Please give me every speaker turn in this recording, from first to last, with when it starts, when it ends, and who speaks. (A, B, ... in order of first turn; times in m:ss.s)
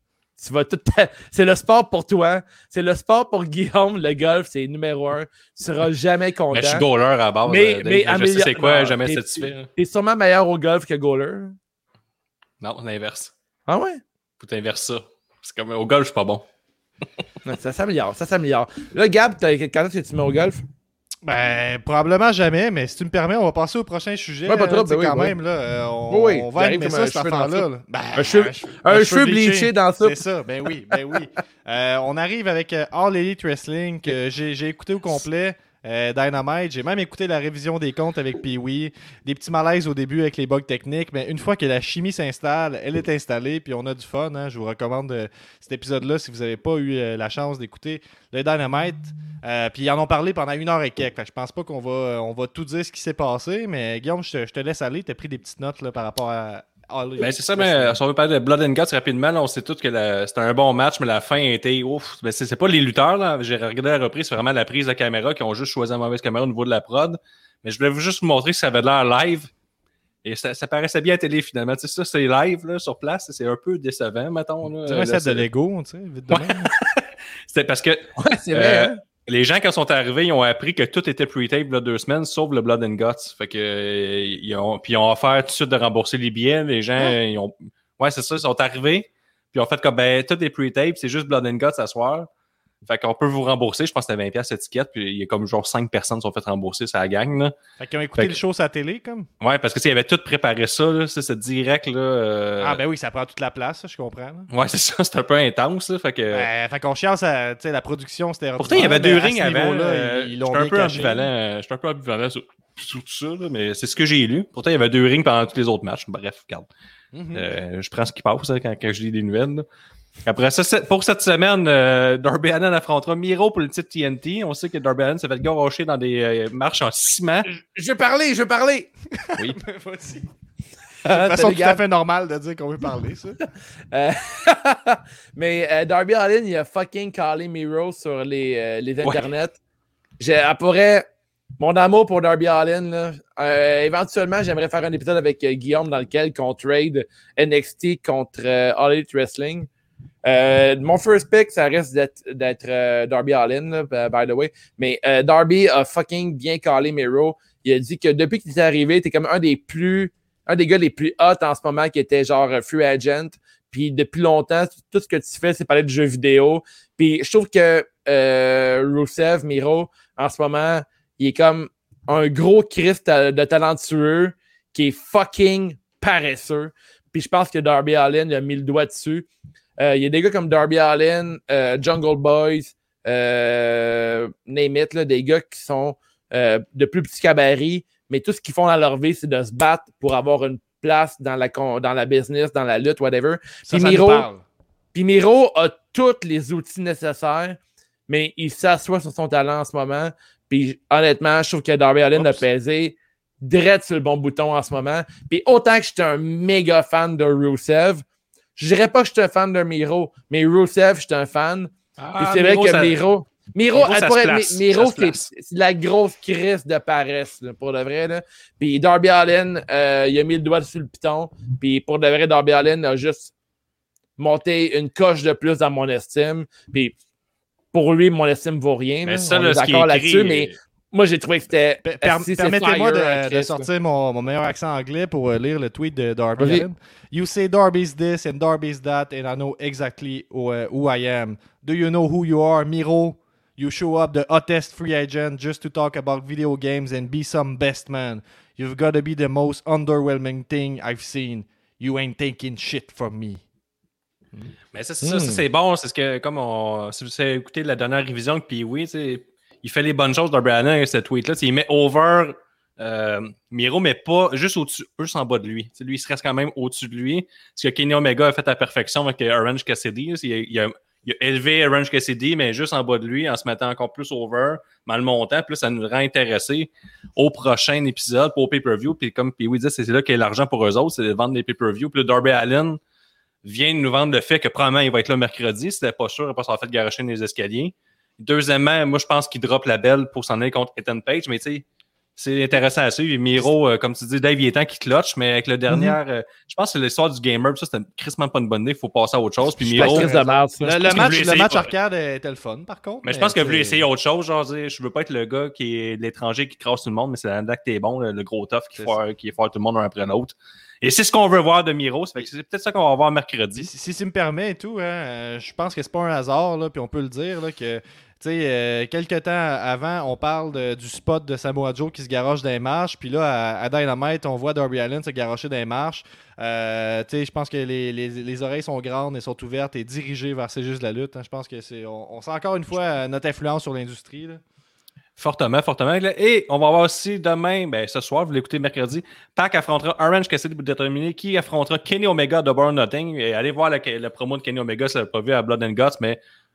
0:00.4-0:06.9 A
0:06.5-0:09.7 B
0:07.4-0:11.6 A
0:12.6-0:13.3 B
0:13.7-0:14.0 A
0:14.4-0:16.4 B
0:17.4-0:20.6 A
0:21.2-0:58.0 C
0:24.5-0:25.4 A
0:26.1-0:30.2 A
0:57.2-1:09.5 B
1:10.2-1:15.4 B
1:14.9-1:16.7 C
1:16.3-1:32.3 B
1:18.2-1:19.0 A
1:32.8-1:37.6 B
1:37.8-1:39.3 C
1:39.4-1:42.8 B
1:42.6-1:44.5 C
1:44.5-1:46.5 B
1:46.3-1:51.3 C
1:48.6-1:56.7 B
1:57.1-1:57.4 C
1:57.3-1:59.6 B
2:00.2-2:07.5 B
2:07.5-2:08.9 A
2:09.2-2:10.3 C
2:11.0-2:11.8 A
2:11.0-2:13.4 C
2:13.9-2:19.6 A
2:19.0-2:19.3 B
2:20.2-2:29.7 A
2:30.2-2:59.3 A
2:59.8-3:14.3 A
3:13.6-3:14.4 C
3:14.9-3:28.0 A
3:28.6-3:43.3 A
3:32.0-3:33.0 B
3:33.7-3:35.3 B
3:44.2-3:46.9 A
3:47.7-3:53.7 A
3:49.0-3:50.5 B
3:51.8-4:13.4 C
3:56.4-3:56.6 A
4:14.7-4:42.8 B
4:15.0-4:15.4 A
4:43.4-4:51.6 B
4:52.2-5:00.1 B
4:59.6-5:03.8 C
4:59.7-5:00.9 A
5:00.8-5:01.7 B
5:03.0-5:13.7 B
5:13.6-5:34.4 C
5:35.2-5:46.2 B